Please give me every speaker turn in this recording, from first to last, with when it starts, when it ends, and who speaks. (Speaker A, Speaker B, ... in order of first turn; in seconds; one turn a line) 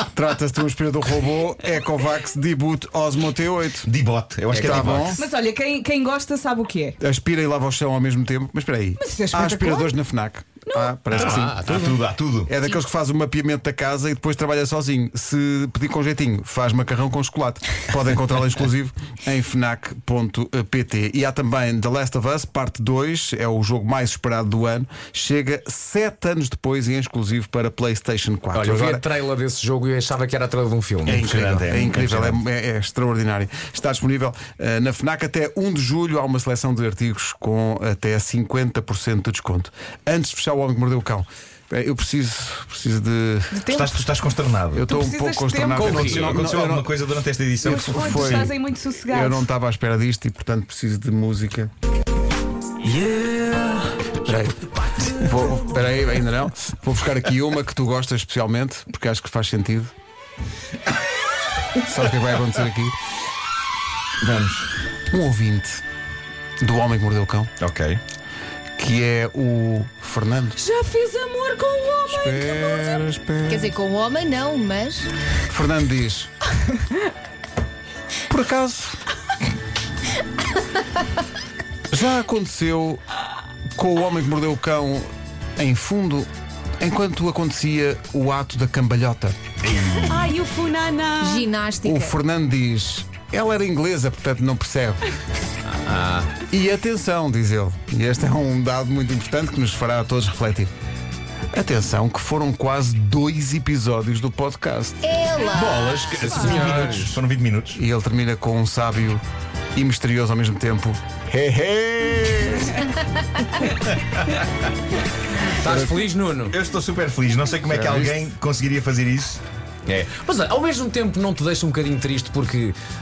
Speaker A: 0.1-3.9
Speaker B: 3.9-5.2
Speaker C: 4.5-5.1
Speaker A: 4.6-5.2
Speaker D: 5.2-7.0
Speaker A: 7.0-29.1
Speaker D: 9.0-9.9
Speaker D: 10.7-11.0
Speaker B: 11.1-12.5
Speaker C: 11.2-12.0
Speaker C: 28.5-31.2
Speaker B: 31.1-32.4
Speaker A: 31.1-43.7
Speaker D: 43.5-43.9
Speaker B: 43.7-44.9
Speaker A: 44.7-46.9
Speaker D: 44.9-45.9
Speaker C: 45.8-46.4
Speaker B: 45.8-48.5
Speaker A: 47.6-48.5
Speaker D: 47.7-49.5
Speaker A: 49.1-51.7
Speaker C: 52.9-53.7
Speaker A: 54.2-54.5
Speaker A: 55.1-59.9
Speaker A: 61.8-63.0
Speaker B: 64.2-64.7
Speaker A: 65.1-65.8
Speaker A: 66.6-67.5
Speaker B: 67.6-68.0
Speaker A: 68.8-70.6
Speaker D: 70.6-73.0
Speaker A: 72.1-73.7
Speaker E: 73.5-75.1
Speaker A: 75.5-76.3
Speaker A: 78.3-79.0
Speaker A: 81.9-83.0
Speaker A: 83.7-86.3
Speaker A: 86.8-89.4
Speaker B: 89.7-90.2
Speaker D: 90.1-91.5
Speaker E: 91.2-92.2
Speaker A: 91.8-95.1
Speaker C: 95.7-96.3
Speaker A: 96.5-100.7
Speaker A: 101.5-105.1
Speaker E: 105.0-106.2
Speaker C: 105.5-107.1
Speaker B: 105.6-107.8
Speaker A: 106.2-107.2
Speaker A: 107.7-109.2
Speaker A: 109.8-112.9
Speaker C: 115.5-116.6
Speaker B: 116.5-119.4
Speaker A: 117.7-118.2
Speaker C: 119.9-122.8